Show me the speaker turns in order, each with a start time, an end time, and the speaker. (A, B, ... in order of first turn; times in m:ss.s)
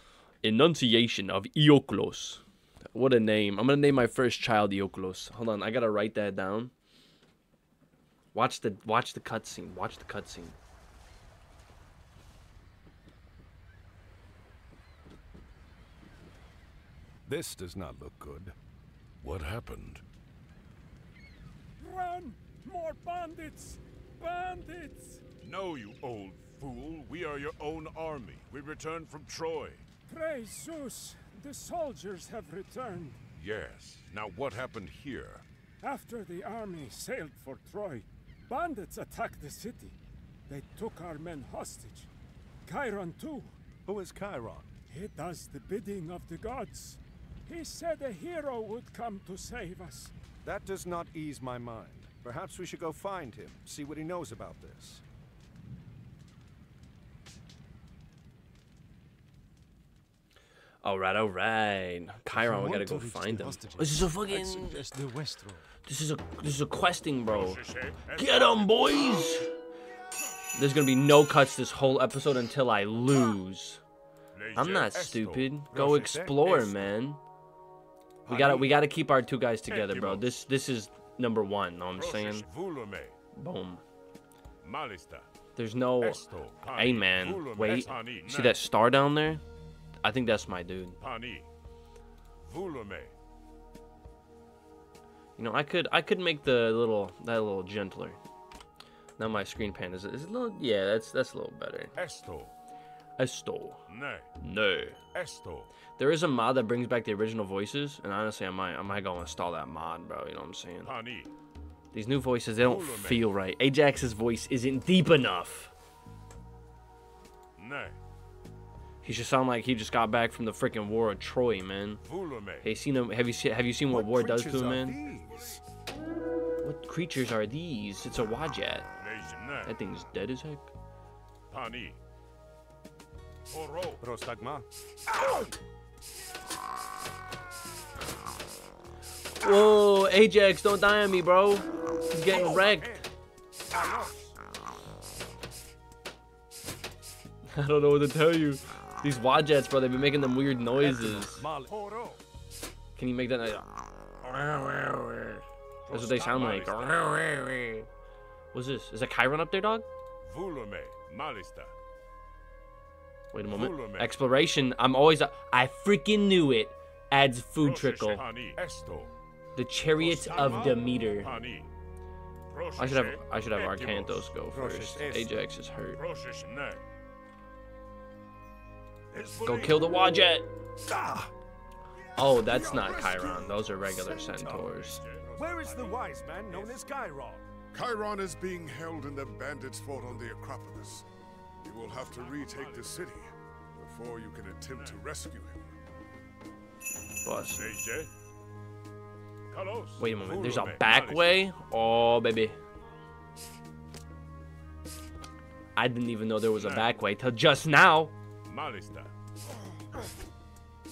0:00.4-0:06.7 A
0:08.3-0:10.6 A
0:17.2-0:18.6 B
0:19.2-0:20.0 C
0:21.8-0:25.3 D
0:25.4-0:29.8 E
0:30.1-0:33.2 D
0:33.4-0:35.4 E
0:35.8-0:40.0 D
0:40.5-0:42.1 D
0:42.7-0:43.5 D
0:43.9-0:44.7 B
0:44.9-0:50.1 D
0:50.4-0:55.0 B
1:00.8-1:04.9 A
1:03.3-1:03.8 B
1:05.1-1:05.6 B
1:05.9-1:07.6 A
1:07.3-1:08.7 E
1:08.1-1:09.5 A
1:10.5-1:13.8 A
1:14.3-1:15.5 E
1:14.6-1:17.2 A
1:15.7-1:16.8 B
1:18.3-1:18.7 B
1:18.3-1:22.5 A
1:19.7-1:20.3 E
1:22.0-1:23.1 E
1:23.4-1:23.8 A
1:24.6-1:25.3 E
1:25.6-1:26.2 A
1:26.0-1:28.6 E
1:26.8-1:29.4 A
1:30.0-1:31.0 A
1:31.0-1:31.5 E
1:32.4-1:33.1 E
1:35.4-1:38.2 A
1:39.2-1:41.9 A
1:42.0-1:42.5 E
1:43.2-1:43.8 A
1:43.9-1:44.3 E
1:44.4-1:45.0 A
1:45.1-1:45.7 E
1:46.0-1:50.9 A
1:50.8-1:51.3 E
1:51.9-1:55.7 A
1:52.6-1:53.3 E
1:57.6-1:58.0 E
1:59.0-2:02.0 A
2:02.1-2:02.7 E
2:02.6-2:05.0 A
2:03.9-2:05.6 B
2:05.1-2:05.6 E
2:06.6-2:08.9 A
2:09.0-2:09.7 E
2:09.6-2:10.7 A
2:11.5-2:12.0 E
2:13.5-2:14.0 E
2:14.0-2:14.7 B
2:19.4-2:23.0 A
2:22.3-2:23.1 B
2:23.7-2:24.3 B
2:27.5-2:31.5 A
2:31.5-2:32.2 B
2:33.0-2:37.9 A
2:35.9-2:37.0 E
2:38.5-2:39.9 A
2:40.2-2:41.7 E
2:43.3-2:48.2 A
2:43.5-2:44.2 E
2:47.6-2:49.1 E
2:49.6-2:51.3 A
2:50.0-2:51.7 E
2:52.5-2:54.4 E
2:52.8-2:56.0 A
2:56.0-2:56.8 E
2:59.1-2:59.7 E
2:59.4-3:00.5 A
3:02.2-3:05.0 A
3:02.6-3:03.1 C
3:04.4-3:06.7 E
3:05.3-3:07.4 B
3:07.7-3:11.1 C
3:11.6-3:15.8 C
3:12.0-3:13.0 E
3:14.7-3:15.0 E
3:17.2-3:17.8 A
3:17.6-3:18.1 E
3:19.5-3:21.3 E
3:20.0-3:22.6 A
3:25.8-3:28.1 A
3:26.6-3:26.9 E
3:28.5-3:29.1 E